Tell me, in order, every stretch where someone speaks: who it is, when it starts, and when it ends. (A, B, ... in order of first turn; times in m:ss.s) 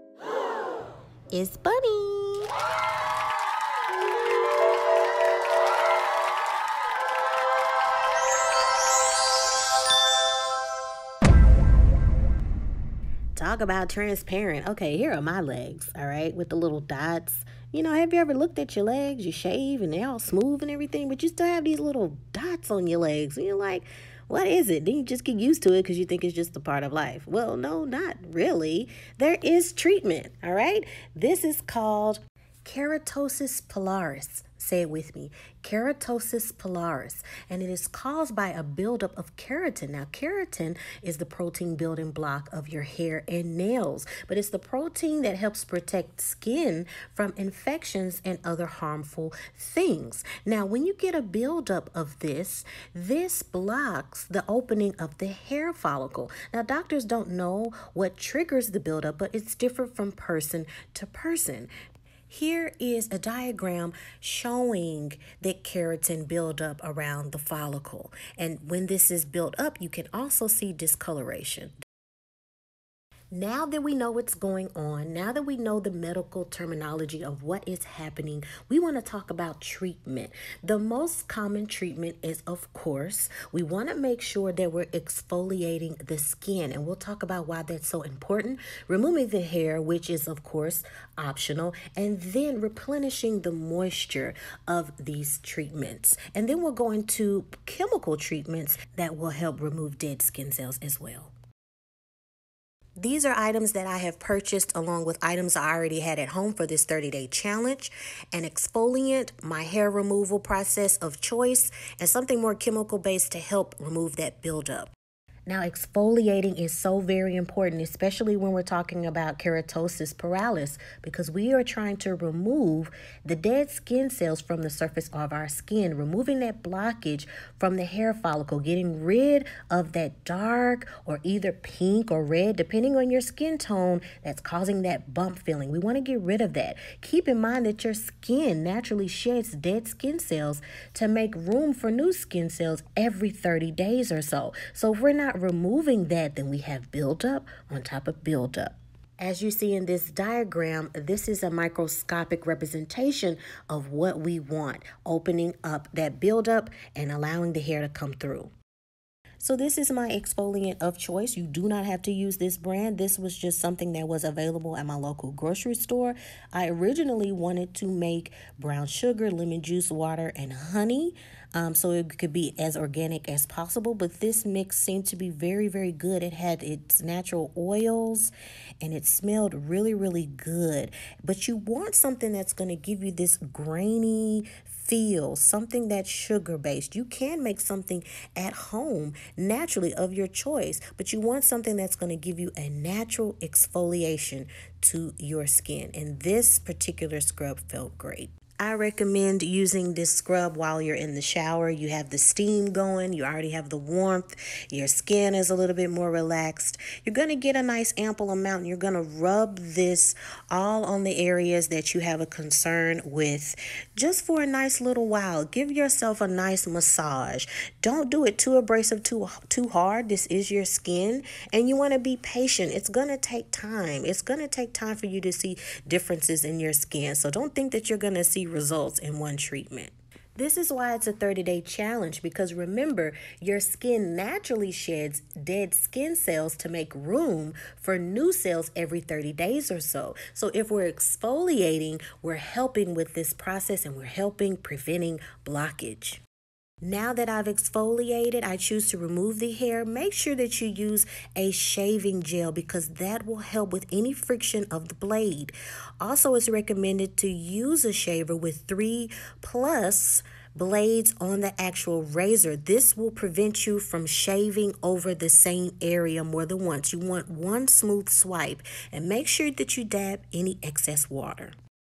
0:01.3-0:02.5 A
0:13.4-1:01.7 A
1:02.3-1:11.8 A
1:13.3-1:41.3 A
1:43.0-1:54.9 A
1:55.5-2:38.5 A
2:39.4-4:06.2 A
4:06.8-4:31.6 A